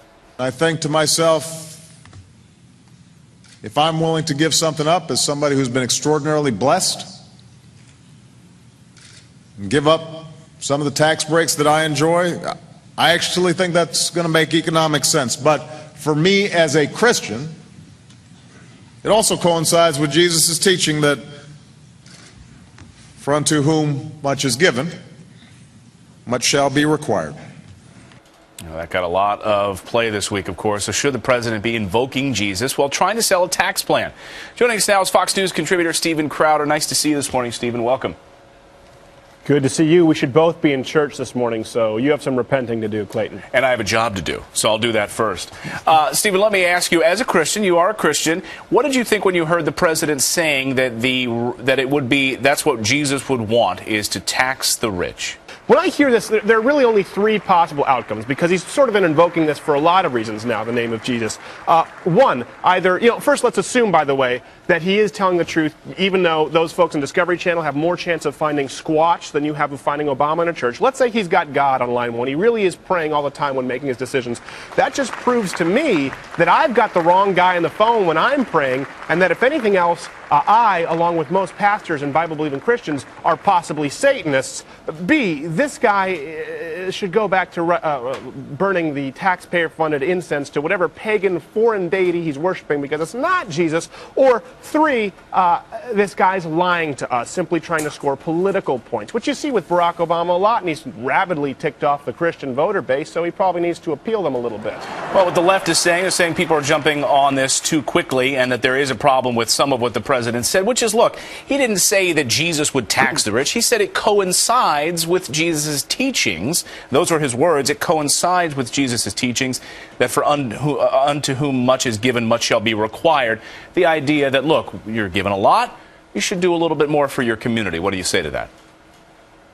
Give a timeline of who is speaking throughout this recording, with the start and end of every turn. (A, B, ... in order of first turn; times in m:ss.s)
0:00.4-0:01.8 A
0:03.6-0:07.1 A
0:09.6-0:17.6 A
0:19.0-0:21.2 A
0:23.2-0:24.9 A
0:26.3-0:27.4 A
0:28.6-0:38.2 B
0:39.4-0:43.4 C
0:43.5-0:55.4 B
0:55.7-1:44.9 C
1:45.1-2:08.5 B